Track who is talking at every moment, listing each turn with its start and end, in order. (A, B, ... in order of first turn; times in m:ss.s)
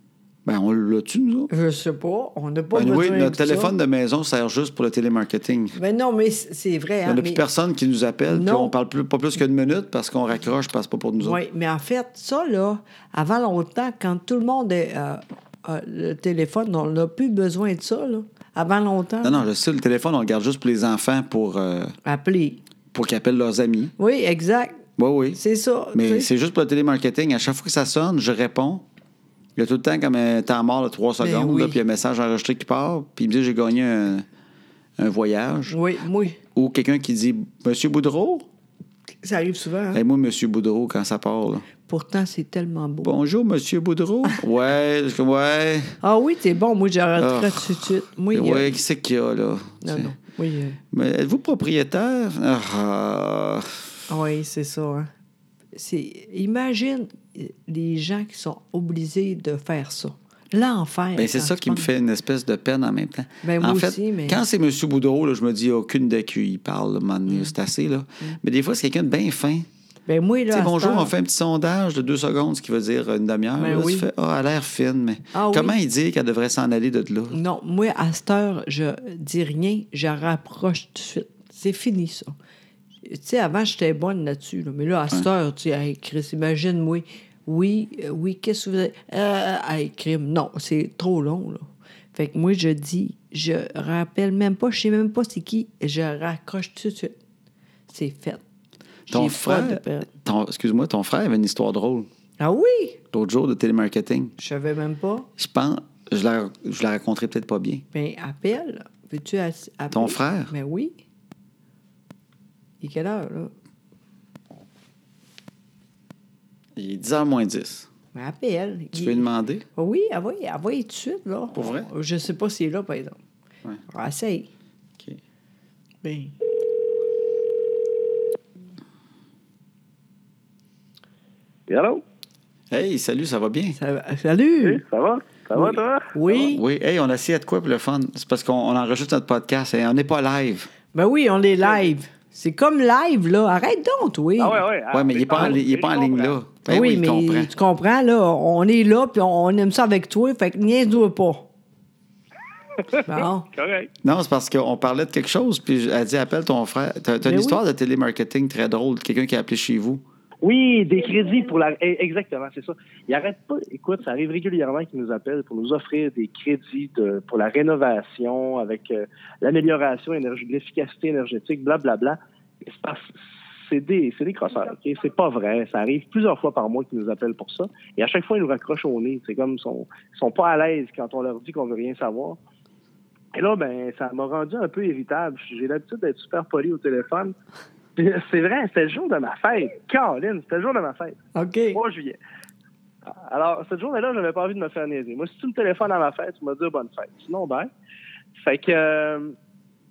0:00.4-0:01.5 A
0:01.5-0:03.7 B
0:02.7-0:05.8 A
0:05.7-0:07.4 B
0:07.0-0:11.4 A
0:08.3-0:08.7 B
0:11.2-0:19.4 B
0:19.2-0:22.0 A
0:22.0-0:22.6 B
0:22.9-0:23.9 A
0:24.0-0:24.8 B
0:25.0-0:25.4 A
0:25.4-0:26.3 B
0:25.9-0:28.8 A
0:29.6-0:34.3 A
0:31.2-0:31.8 B
0:35.0-0:35.7 A
0:35.7-0:36.4 B
0:36.6-0:38.5 A
0:39.2-0:40.0 B
0:39.9-0:41.7 A
0:41.9-0:43.1 B
0:43.0-0:46.0 A
0:46.0-0:48.7 B
0:47.2-0:50.1 A
0:49.8-0:50.8 B
0:50.9-0:53.9 A
0:54.1-0:55.1 B
0:55.7-1:01.9 B
1:01.2-1:09.7 A
1:03.4-1:04.4 B
1:10.1-1:11.1 B
1:10.5-1:17.4 A
1:13.6-1:14.1 B
1:15.3-1:15.8 B
1:17.3-1:22.4 B
1:23.0-1:37.2 B
1:37.9-1:38.4 B
1:39.1-1:40.1 B
1:39.1-1:42.1 A
1:42.4-1:43.0 B
1:43.1-1:44.3 A
1:44.4-1:45.3 B
1:45.4-1:47.8 A
1:47.9-1:51.0 B
1:49.9-1:50.5 A
1:52.8-1:53.5 B
1:56.8-1:57.9 A
1:58.1-2:03.2 B
1:58.9-1:59.6 A
2:01.5-2:01.9 A
2:03.9-2:04.5 B
2:06.0-2:06.3 B
2:11.7-2:12.0 C
2:12.7-2:13.8 A
2:13.8-2:14.8 B
2:14.6-2:16.3 C
2:15.6-2:16.6 B
2:16.4-2:20.7 A
2:20.9-2:24.6 B
2:21.6-2:21.9 C
2:24.4-2:26.4 C
2:24.9-2:27.5 A
2:26.7-2:31.5 B
2:32.8-2:33.9 C
2:33.1-2:33.5 B
2:34.0-2:40.0 A
2:37.2-2:37.6 B
2:40.4-2:53.1 C
2:53.7-3:02.4 C
3:03.3-3:07.3 C
3:08.0-3:11.2 C
3:11.3-3:11.8 B
3:11.7-3:12.2 C
3:13.1-3:17.7 C
3:18.4-3:19.4 C